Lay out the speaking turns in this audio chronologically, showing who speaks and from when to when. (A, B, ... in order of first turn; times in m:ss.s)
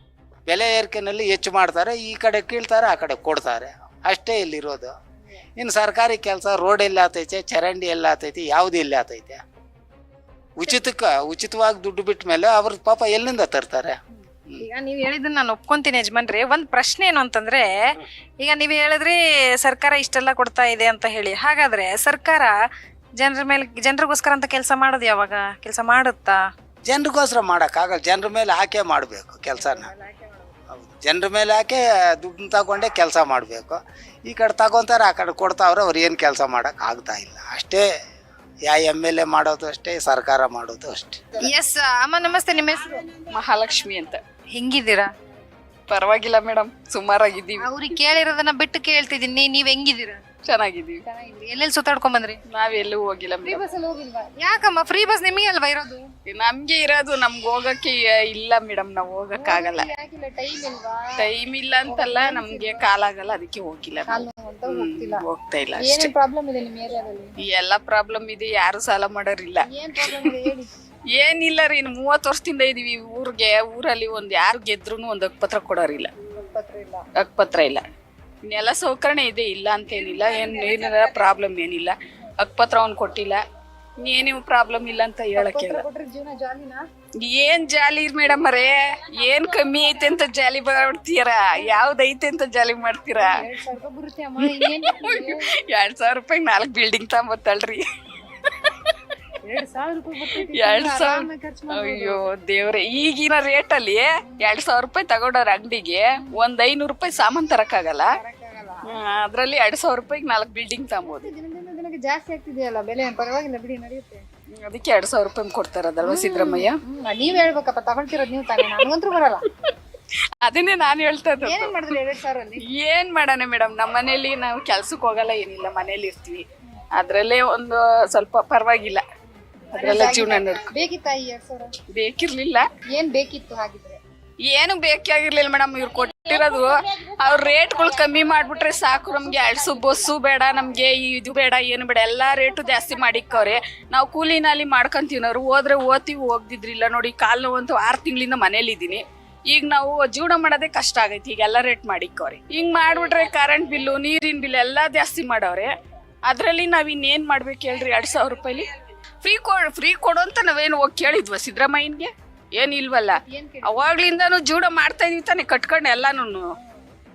0:00.5-0:05.0 A
0:05.6-0:09.4 A
0:10.6-0:14.6 A
0:14.2-0:22.6 B
0:23.2-0:26.4 B
0:26.9-0:29.9 A
0:29.6-0:30.6 B
0:30.7-0:37.9 A
0:38.7-0:41.2 A
0:41.4-0:43.1 B
0:43.3-0:44.2 C
0:44.5-0:45.1 B
0:45.9-0:47.7 C
0:47.6-0:50.2 B
0:50.5-0:51.0 C
0:51.1-0:52.4 B
0:52.5-0:53.6 C
0:53.4-0:56.1 B
0:56.3-0:59.9 C
0:59.4-1:01.1 B
1:01.2-1:06.1 C
1:01.9-1:02.8 B
1:04.1-1:05.2 B
1:05.8-1:07.3 B
1:07.4-1:10.4 C
1:09.7-1:10.7 B
1:11.1-1:16.1 C
1:16.4-1:17.1 B
1:17.2-1:17.8 C
1:18.5-1:23.4 C
1:24.0-1:25.8 C
1:25.4-1:26.8 B
1:27.2-1:33.4 C
1:33.2-1:35.4 B
1:34.4-1:37.8 C
1:39.4-1:42.2 B
1:40.5-1:48.1 C
1:48.2-1:48.8 B
1:48.9-1:51.3 C
1:51.1-1:54.2 B
1:54.6-1:56.8 C
1:56.0-1:59.4 B
2:00.4-2:01.7 C
2:01.4-2:02.6 B
2:02.6-2:09.0 C
2:09.7-2:10.7 C
2:09.8-2:11.7 B
2:11.9-2:12.7 C
2:12.9-2:14.0 B
2:14.5-2:35.7 C
2:36.3-2:38.7 C
2:39.2-2:46.5 C
2:43.3-2:43.8 B